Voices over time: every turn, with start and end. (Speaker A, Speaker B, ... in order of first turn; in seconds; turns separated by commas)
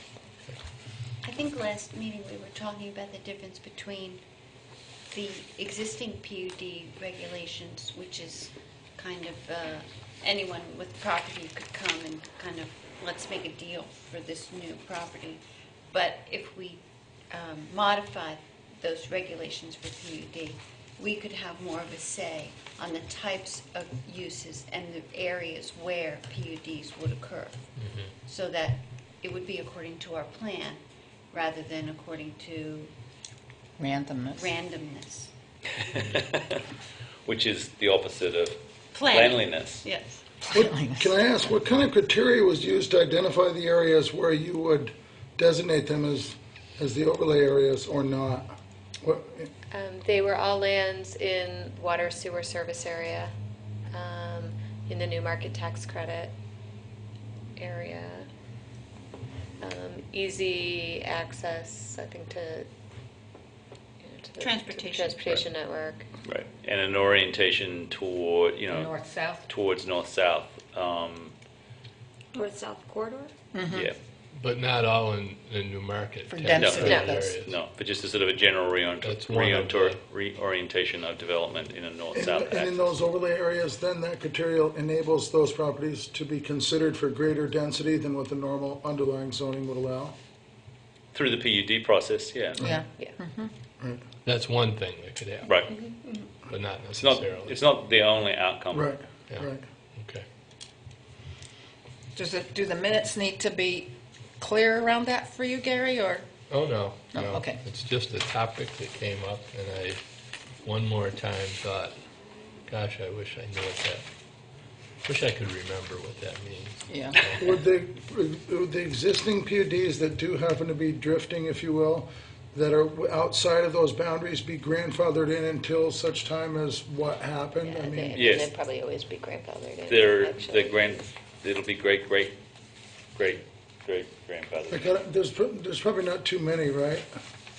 Speaker A: 1.2-4.2, Speaker A: 5.1-27.6, Speaker B: 27.8-28.1, Speaker A: 28.2-30.8, Speaker A: 31.3-32.9, Speaker C: 33.8-34.5, Speaker A: 34.3-35.3, Speaker D: 35.8-36.6, Speaker B: 36.0-36.2, Speaker D: 37.3-39.8, Speaker A: 38.9-40.2, Speaker C: 40.5-41.2, Speaker E: 40.5-49.5, Speaker F: 49.7-53.3, Speaker F: 53.9-56.3, Speaker F: 57.6-58.3, Speaker F: 59.6-62.7, Speaker F: 64.0-66.1, Speaker A: 64.4-65.4, Speaker D: 66.2-71.3, Speaker C: 68.7-69.5, Speaker C: 73.5-73.9, Speaker D: 73.7-74.0, Speaker B: 74.3-77.6, Speaker C: 76.3-77.4, Speaker D: 76.6-83.0, Speaker B: 79.0-80.0, Speaker E: 82.1-90.2, Speaker D: 91.1-92.6, Speaker C: 92.6-93.5, Speaker B: 94.2-95.6, Speaker D: 95.5-95.8, Speaker B: 96.5-97.6, Speaker D: 97.0-98.9, Speaker E: 98.7-99.7, Speaker B: 99.3-100.2, Speaker C: 102.2-106.3, Speaker B: 106.5-110.0, Speaker C: 107.1-107.6, Speaker B: 110.6-112.0, Speaker B: 112.7-114.1, Speaker B: 115.0-117.5, Speaker C: 116.9-117.2, Speaker E: 117.4-128.3, Speaker F: 127.6-131.0, Speaker D: 128.2-128.5, Speaker D: 129.9-132.3, Speaker D: 133.2-134.9, Speaker E: 134.7-137.1